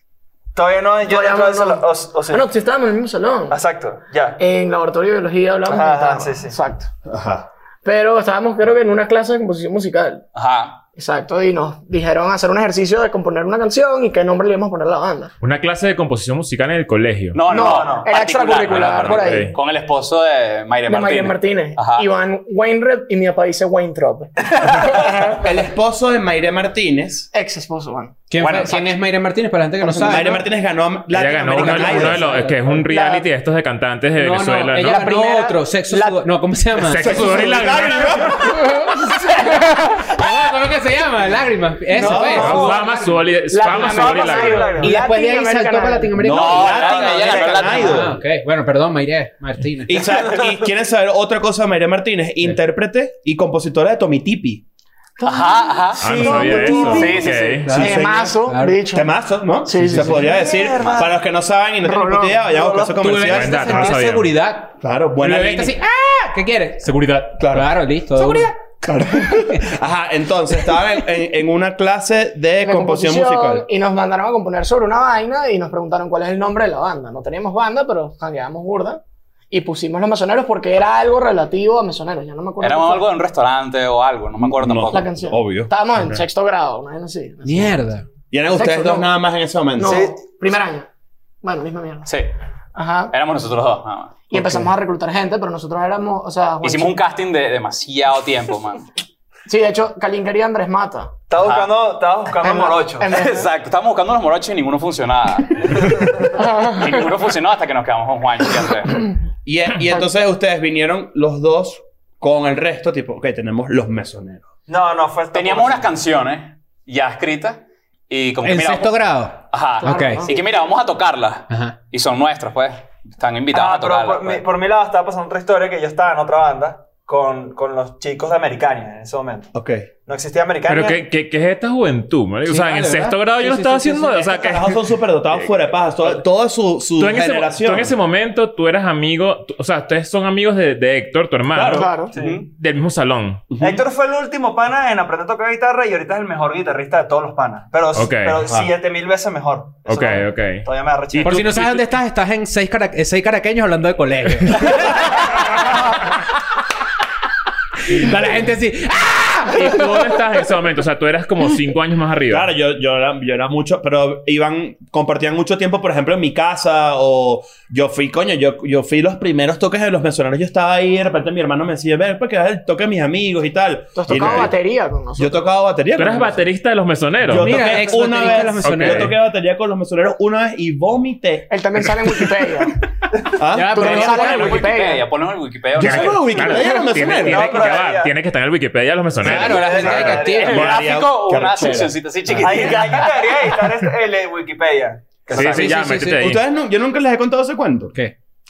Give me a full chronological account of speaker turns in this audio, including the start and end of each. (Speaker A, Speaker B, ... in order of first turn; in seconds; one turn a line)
Speaker A: 0.5-2.5
Speaker B: 1.0-3.6
Speaker A: 3.5-4.4
Speaker B: 4.4-6.9
Speaker A: 5.7-6.5
Speaker C: 7.0-7.5
Speaker B: 7.8-10.2
Speaker D: 10.3-10.8
Speaker B: 10.9-15.3
Speaker E: 15.4-17.4
Speaker D: 17.3-22.1
Speaker B: 17.5-19.6
Speaker A: 17.6-18.1
Speaker E: 18.7-19.6
Speaker B: 20.9-25.4
Speaker C: 25.4-27.3
Speaker B: 27.3-28.1
Speaker F: 28.3-30.4
Speaker D: 28.4-28.9
Speaker B: 29.9-30.3
Speaker C: 30.0-32.4
Speaker E: 31.1-35.3
Speaker F: 31.5-32.6
Speaker B: 32.6-33.2
Speaker F: 34.2-37.3
Speaker B: 35.0-36.2
Speaker E: 36.8-38.6
Speaker C: 36.9-38.7
Speaker F: 39.3-43.2
Speaker C: 41.9-42.7
Speaker B: 42.0-46.2
Speaker E: 42.3-44.9
Speaker A: 43.6-45.0
Speaker F: 44.8-46.6
Speaker C: 46.2-48.2
Speaker D: 46.3-48.1
Speaker A: 46.4-47.8
Speaker F: 47.7-50.3
Speaker C: 49.8-54.6
Speaker B: 55.2-59.1
Speaker D: 55.2-57.7
Speaker E: 56.0-57.7
Speaker F: 57.6-58.8
Speaker C: 57.6-58.1
Speaker C: 58.9-63.9
Speaker B: 59.6-60.3
Speaker F: 59.8-60.2
Speaker A: 60.1-61.1
Speaker B: 61.8-63.0
Speaker F: 63.0-68.5
Speaker E: 63.3-64.3
Speaker C: 64.8-65.8
Speaker C: 67.4-73.7
Speaker F: 69.3-69.7
Speaker B: 72.6-83.1
Speaker D: 82.6-85.2
Speaker C: 84.4-85.7
Speaker B: 84.9-87.8
Speaker F: 87.4-88.0
Speaker C: 88.3-90.0
Speaker B: 88.5-89.1
Speaker B: 89.8-90.9
Speaker A: 89.8-90.2
Speaker B: 91.4-92.1
Speaker B: 92.7-93.1
Speaker D: 93.1-94.2
Speaker B: 94.3-97.0
Speaker C: 94.3-94.7
Speaker D: 96.6-98.9
Speaker B: 99.5-101.1
Speaker A: 101.3-103.1
Speaker D: 101.3-101.7
Speaker B: 102.4-103.5
Speaker D: 103.1-105.9
Speaker A: 105.8-106.1
Speaker B: 106.3-106.9
Speaker D: 106.7-109.0
Speaker C: 109.4-114.5
Speaker A: 114.7-115.9
Speaker D: 115.3-124.4
Speaker F: 118.4-120.2
Speaker B: 119.8-120.4
Speaker F: 121.5-121.8
Speaker A: 123.5-129.5
Speaker C: 129.5-129.9
Speaker A: 130.0-131.0
Speaker E: 130.7-135.3
Speaker F: 132.5-134.3
Speaker C: 134.2-137.9
Speaker E: 137.0-143.4
Speaker C: 141.5-141.9
Speaker B: 141.7-142.2
Speaker A: 142.1-142.5
Speaker C: 143.5-143.8
Speaker A: 143.6-151.6
Speaker E: 147.9-148.4
Speaker E: 149.8-151.8
Speaker F: 151.2-154.9
Speaker F: 157.9-160.2
Speaker E: 159.5-162.5
Speaker C: 162.3-174.5
Speaker B: 173.9-175.5
Speaker E: 174.1-174.5
Speaker C: 175.2-176.4
Speaker E: 175.9-177.7
Speaker C: 177.2-182.1
Speaker F: 177.3-179.1
Speaker E: 178.6-179.1
Speaker B: 181.5-182.8
Speaker C: 183.3-184.6
Speaker F: 183.5-184.6
Speaker B: 183.7-185.1
Speaker D: 183.9-186.3
Speaker C: 185.8-187.6
Speaker E: 185.8-190.2
Speaker B: 186.5-186.9
Speaker A: 187.2-188.1
Speaker F: 189.2-190.6
Speaker A: 189.3-190.8
Speaker D: 189.3-193.5
Speaker C: 190.4-192.0
Speaker A: 192.4-195.6
Speaker E: 195.3-196.4
Speaker D: 195.3-195.6
Speaker F: 195.3-196.2
Speaker C: 195.9-197.9